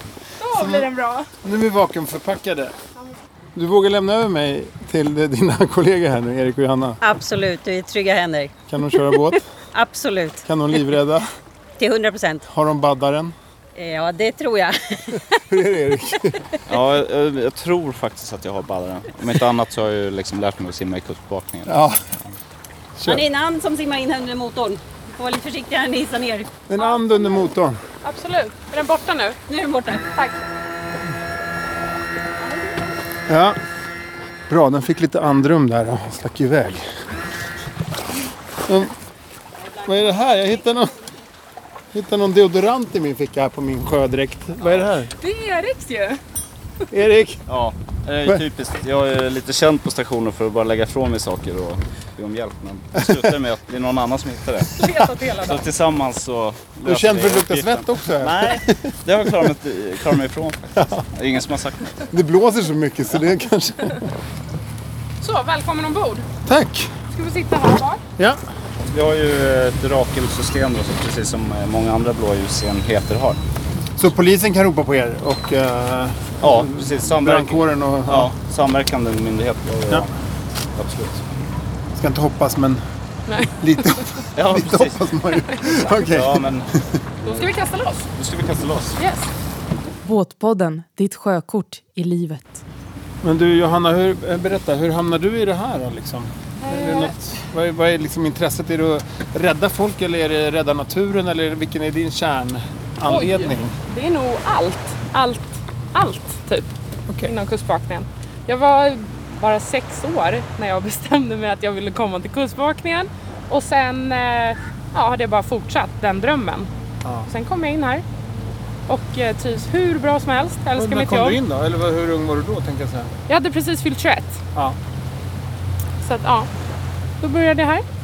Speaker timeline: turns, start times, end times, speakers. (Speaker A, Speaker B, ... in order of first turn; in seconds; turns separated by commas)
Speaker A: 0.4-1.3, Speaker B: 0.5-0.9, Speaker B: 1.4-2.8, Speaker B: 3.5-7.0, Speaker C: 7.0-8.5, Speaker B: 8.7-9.5, Speaker C: 9.7-10.5, Speaker B: 10.4-11.3, Speaker C: 11.8-12.4, Speaker B: 12.5-13.3, Speaker C: 13.8-15.4, Speaker B: 15.5-16.6, Speaker D: 16.7-21.8, Speaker B: 21.7-22.0, Speaker B: 23.0-23.2, Speaker C: 23.1-26.6, Speaker B: 26.7-27.8, Speaker A: 26.8-27.5, Speaker A: 28.0-29.4, Speaker C: 29.5-30.1, Speaker A: 30.1-30.4, Speaker A: 32.4-32.9, Speaker B: 33.3-33.6, Speaker B: 34.5-36.9, Speaker B: 38.6-38.9, Speaker B: 39.8-41.0, Speaker B: 41.9-45.1, Speaker A: 45.1-46.2, Speaker B: 46.9-47.4, Speaker D: 47.5-54.8, Speaker A: 54.8-55.7, Speaker D: 55.4-61.9, Speaker B: 56.8-59.5, Speaker B: 60.7-61.1, Speaker B: 62.1-64.1, Speaker A: 65.2-66.3, Speaker B: 66.5-67.0, Speaker A: 67.1-68.0, Speaker D: 68.9-73.4, Speaker B: 74.0-78.3, Speaker D: 76.4-80.1, Speaker D: 80.8-81.2, Speaker B: 81.9-82.8, Speaker A: 83.3-84.0, Speaker B: 83.6-86.8, Speaker D: 84.3-86.7, Speaker D: 87.2-87.5, Speaker A: 87.3-88.1, Speaker D: 88.2-89.0, Speaker A: 89.0-89.3, Speaker E: 90.0-92.6, Speaker B: 93.2-103.8, Speaker A: 96.6-97.1, Speaker A: 103.1-106.7, Speaker A: 107.2-116.7, Speaker B: 117.0-117.3, Speaker A: 117.3-118.0, Speaker A: 118.9-121.4, Speaker B: 120.8-123.1, Speaker A: 123.3-124.4, Speaker A: 126.0-126.5, Speaker A: 127.2-127.9